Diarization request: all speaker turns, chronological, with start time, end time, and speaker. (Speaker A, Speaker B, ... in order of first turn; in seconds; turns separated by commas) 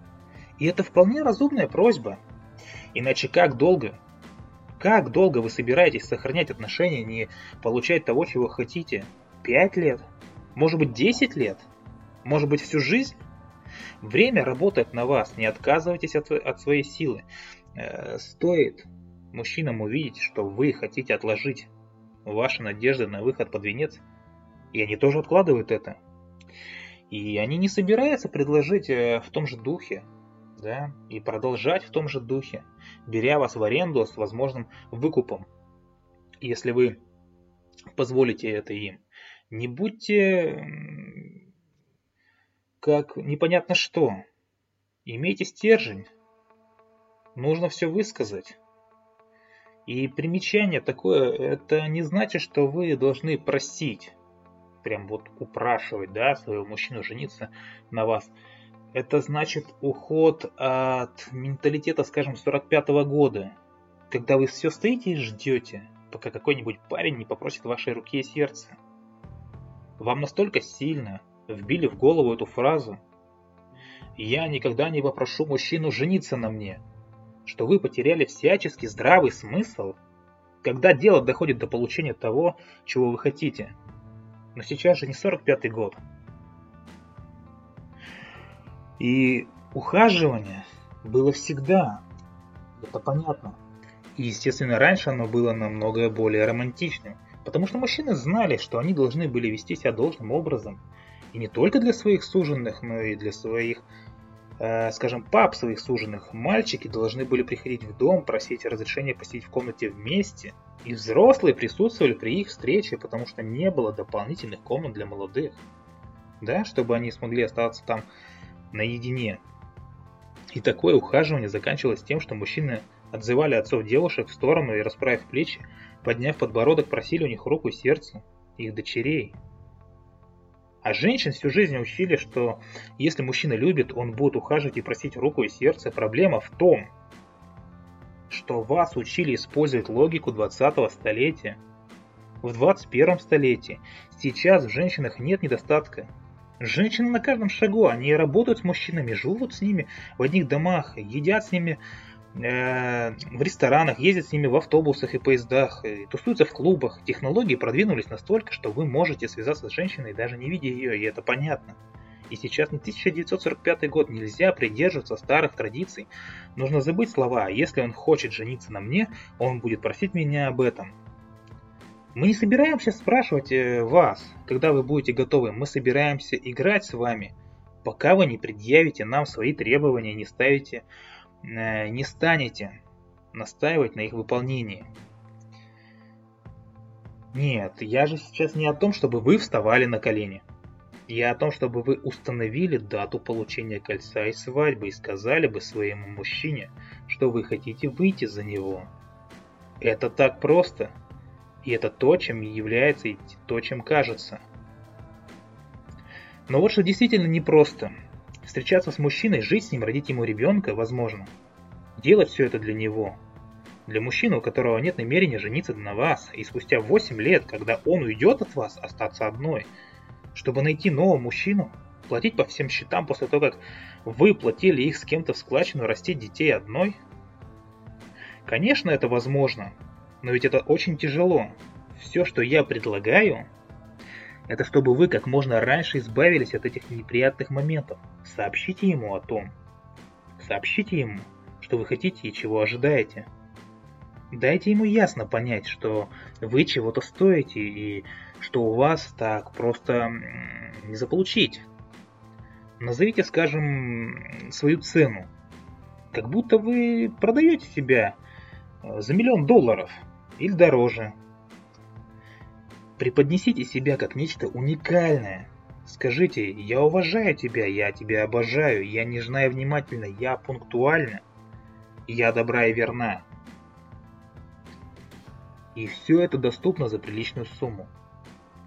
Speaker A: 0.6-2.2, Speaker A: 2.9-4.0, Speaker A: 4.8-11.7, Speaker A: 12.2-13.2, Speaker A: 14.0-17.2, Speaker A: 17.8-21.7, Speaker A: 22.2-24.0, Speaker A: 24.7-26.0, Speaker A: 27.1-35.5, Speaker A: 36.4-37.0, Speaker A: 38.0-41.4, Speaker A: 42.8-44.2, Speaker A: 45.0-46.1, Speaker A: 47.4-48.6, Speaker A: 49.9-54.2, Speaker A: 54.8-58.4, Speaker A: 58.9-63.5, Speaker A: 64.1-68.8, Speaker A: 70.0-73.0, Speaker A: 74.2-76.8, Speaker A: 77.5-80.0, Speaker A: 80.6-83.8, Speaker A: 84.5-86.0, Speaker A: 89.0-92.0, Speaker A: 92.8-93.5, Speaker A: 94.2-100.8, Speaker A: 101.3-103.9, Speaker A: 104.6-115.6, Speaker A: 116.4-118.1, Speaker A: 118.7-119.4, Speaker A: 120.5-129.4, Speaker A: 130.8-136.9, Speaker A: 138.3-141.6, Speaker A: 142.4-151.8, Speaker A: 152.3-161.8, Speaker A: 162.3-170.9, Speaker A: 172.1-180.9, Speaker A: 181.4-182.8, Speaker A: 183.3-184.9, Speaker A: 187.3-190.4, Speaker A: 191.1-198.9, Speaker A: 199.8-200.9, Speaker A: 201.6-204.4, Speaker A: 206.5-207.9, Speaker A: 208.4-211.3, Speaker A: 212.0-213.2, Speaker A: 213.9-219.7, Speaker A: 220.3-227.0, Speaker A: 228.4-233.5, Speaker A: 234.5-239.5, Speaker A: 240.4-243.3, Speaker A: 244.3-251.7, Speaker A: 252.8-255.3, Speaker A: 256.1-258.2, Speaker A: 258.8-261.1, Speaker A: 263.0-271.2, Speaker A: 272.1-273.2, Speaker A: 275.8-277.9